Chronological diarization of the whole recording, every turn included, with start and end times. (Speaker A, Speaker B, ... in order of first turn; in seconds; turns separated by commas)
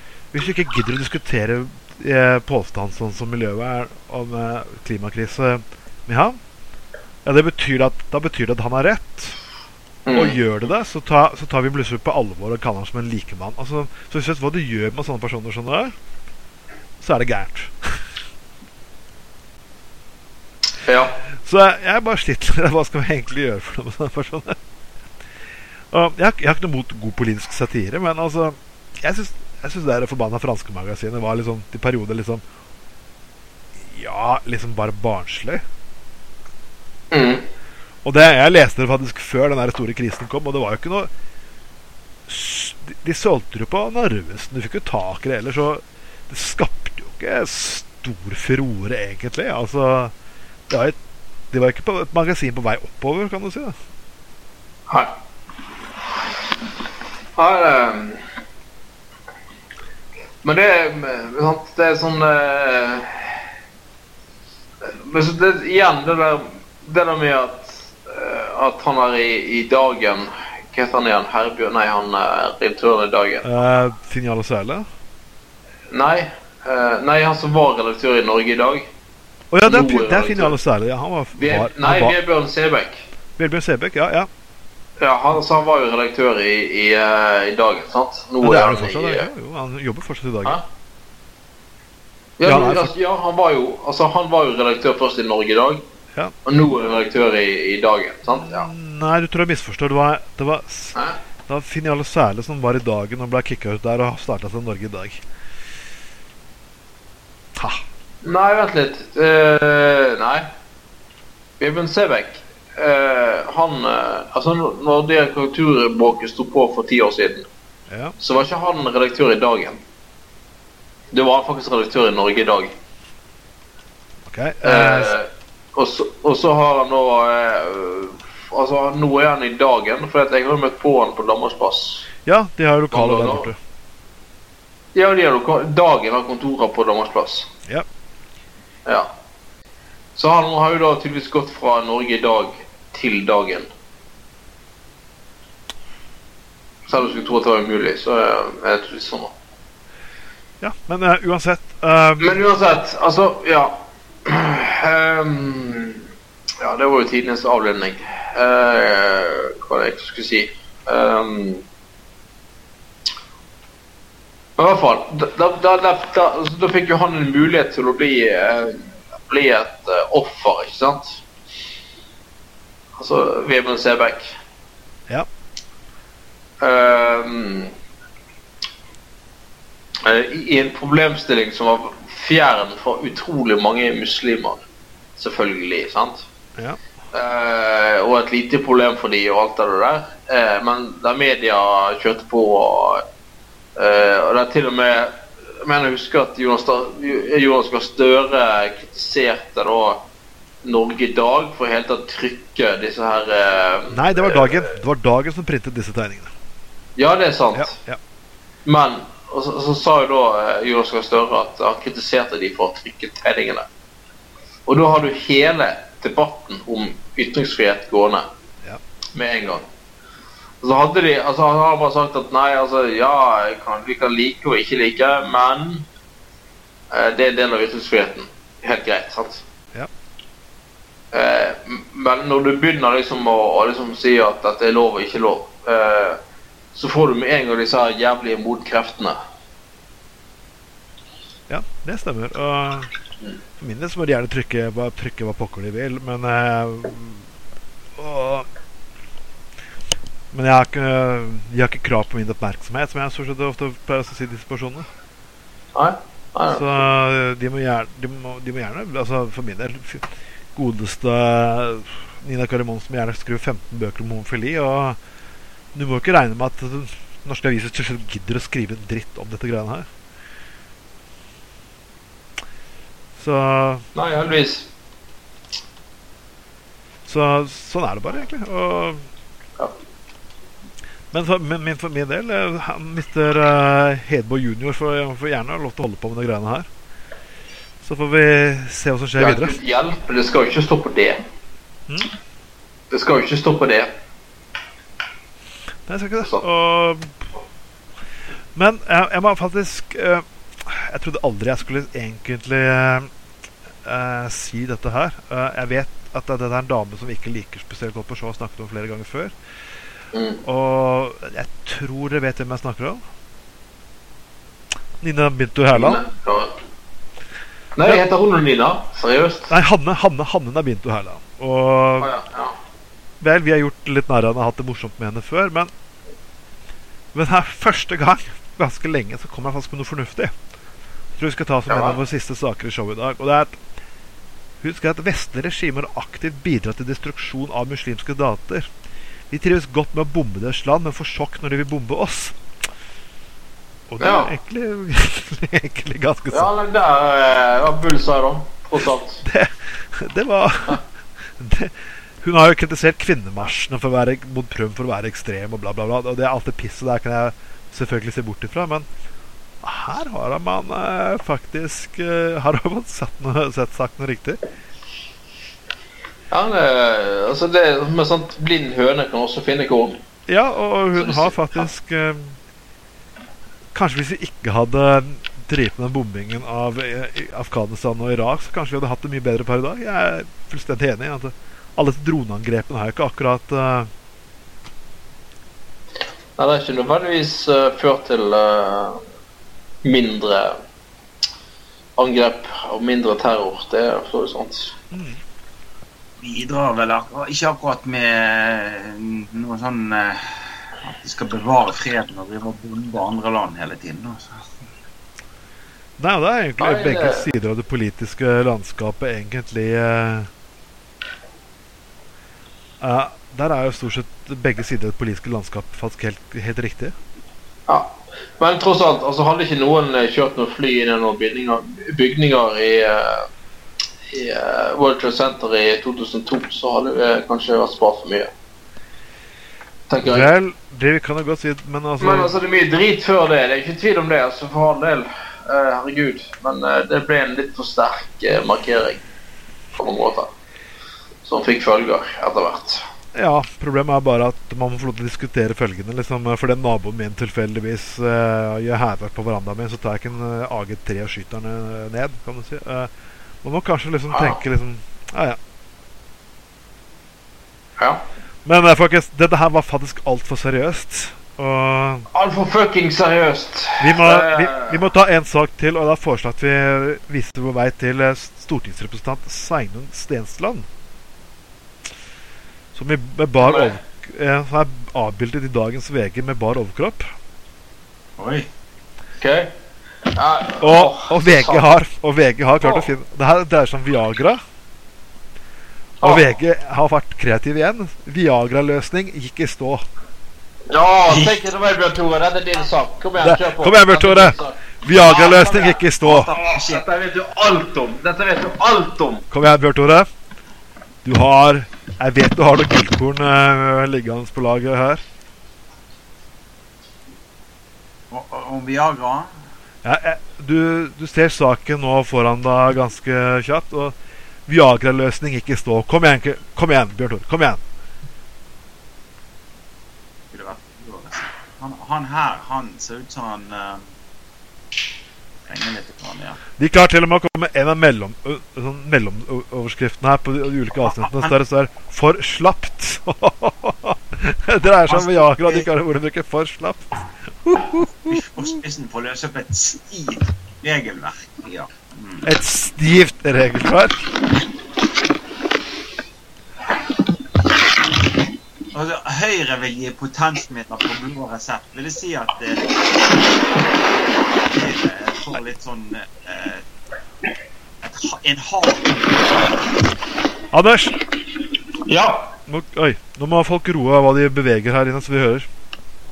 Speaker A: 0.3-6.4, Speaker A: 7.2-9.4, Speaker B: 10.1-10.4, Speaker A: 10.1-15.9, Speaker A: 17.0-18.1, Speaker B: 20.8-21.1, Speaker A: 21.4-24.6, Speaker A: 25.9-32.4, Speaker A: 33.8-35.6, Speaker B: 37.1-37.5, Speaker A: 38.0-41.1, Speaker A: 42.3-50.1, Speaker A: 50.7-51.0, Speaker A: 51.5-53.7, Speaker B: 57.4-58.2, Speaker B: 60.4-63.4, Speaker B: 64.8-73.5, Speaker A: 73.4-74.8, Speaker B: 75.9-78.9, Speaker A: 79.5-82.2, Speaker B: 79.7-80.6, Speaker B: 81.4-83.1, Speaker A: 83.4-84.3, Speaker B: 85.0-89.3, Speaker A: 88.4-90.6, Speaker B: 92.4-95.8, Speaker A: 92.5-92.9, Speaker B: 96.4-98.7, Speaker A: 98.4-105.2, Speaker A: 107.5-107.8, Speaker B: 108.2-110.5, Speaker B: 111.6-117.5, Speaker A: 117.9-118.2, Speaker B: 118.2-119.8, Speaker B: 121.1-122.7, Speaker A: 124.3-125.1, Speaker B: 124.6-132.1, Speaker A: 132.2-133.6, Speaker B: 132.9-133.5, Speaker B: 134.9-137.5, Speaker B: 138.8-139.1, Speaker B: 140.2-143.7, Speaker B: 146.8-149.3, Speaker A: 150.6-152.4, Speaker B: 152.2-156.0, Speaker B: 156.6-161.6, Speaker B: 164.6-171.2, Speaker B: 173.0-174.3, Speaker B: 176.6-177.7, Speaker B: 180.0-184.6, Speaker B: 185.2-186.2, Speaker B: 187.1-193.0, Speaker B: 193.8-200.1, Speaker B: 200.6-204.7, Speaker A: 203.9-206.3, Speaker B: 206.9-207.8, Speaker A: 207.5-208.0, Speaker B: 208.6-213.7, Speaker B: 214.7-218.3, Speaker B: 219.1-219.7, Speaker B: 220.6-225.8, Speaker B: 226.9-229.4, Speaker B: 231.1-236.2, Speaker B: 236.7-239.2, Speaker A: 241.5-242.9, Speaker A: 243.6-247.3, Speaker A: 248.0-248.5, Speaker A: 250.3-254.9, Speaker B: 255.7-256.8, Speaker A: 256.5-265.0, Speaker A: 265.7-269.9, Speaker A: 273.2-273.9, Speaker B: 273.9-274.7, Speaker A: 277.1-279.0, Speaker A: 281.1-286.7, Speaker A: 287.8-289.5, Speaker B: 289.2-291.2, Speaker B: 292.9-293.9, Speaker A: 295.9-297.2, Speaker A: 298.5-303.1, Speaker A: 303.8-309.3, Speaker B: 310.1-310.4, Speaker A: 310.4-313.0, Speaker A: 315.0-316.0, Speaker B: 315.7-316.5, Speaker B: 317.8-319.5, Speaker A: 319.5-322.1, Speaker B: 322.0-322.6, Speaker A: 323.2-325.7, Speaker A: 327.1-330.3, Speaker A: 331.2-333.6, Speaker B: 331.7-331.9, Speaker A: 334.6-338.7, Speaker A: 339.3-342.4, Speaker A: 343.9-346.5, Speaker B: 344.0-344.3, Speaker B: 346.3-349.2, Speaker A: 349.2-350.8, Speaker A: 351.4-358.9, Speaker A: 359.6-364.4, Speaker B: 366.3-370.0, Speaker A: 370.3-372.4, Speaker B: 370.9-371.7, Speaker A: 373.7-383.9, Speaker B: 386.4-389.0, Speaker B: 389.8-390.6, Speaker B: 392.0-394.7, Speaker A: 394.9-395.2, Speaker C: 396.2-404.5, Speaker A: 406.0-410.3, Speaker B: 406.6-407.3, Speaker A: 412.8-416.9, Speaker B: 417.7-423.3, Speaker B: 424.1-428.3, Speaker B: 429.9-430.3, Speaker A: 430.0-432.3, Speaker B: 432.0-439.0, Speaker B: 439.8-440.3, Speaker B: 441.2-442.9, Speaker A: 443.1-452.9, Speaker A: 453.4-455.4, Speaker B: 454.1-454.4, Speaker A: 458.4-462.1, Speaker B: 462.1-464.8, Speaker A: 463.8-470.7, Speaker A: 472.7-477.1, Speaker B: 473.4-473.8, Speaker C: 478.2-478.5, Speaker B: 479.2-479.5, Speaker B: 480.1-481.7, Speaker A: 480.6-484.4, Speaker B: 482.6-482.9, Speaker B: 486.0-486.3, Speaker A: 486.0-489.9, Speaker B: 490.7-499.3, Speaker C: 491.1-491.4, Speaker A: 493.2-496.3, Speaker C: 496.0-496.9, Speaker A: 499.3-500.1, Speaker A: 501.0-505.0, Speaker C: 508.1-509.3, Speaker A: 509.8-513.9, Speaker A: 514.5-517.6, Speaker C: 520.3-523.9, Speaker C: 525.5-526.4, Speaker A: 526.6-538.6, Speaker C: 530.9-531.3, Speaker C: 534.9-535.7, Speaker C: 538.1-542.2, Speaker A: 542.2-544.1, Speaker C: 548.7-552.7, Speaker C: 554.4-556.6, Speaker C: 557.8-559.6, Speaker A: 560.5-561.0, Speaker B: 561.9-562.3, Speaker A: 562.5-565.5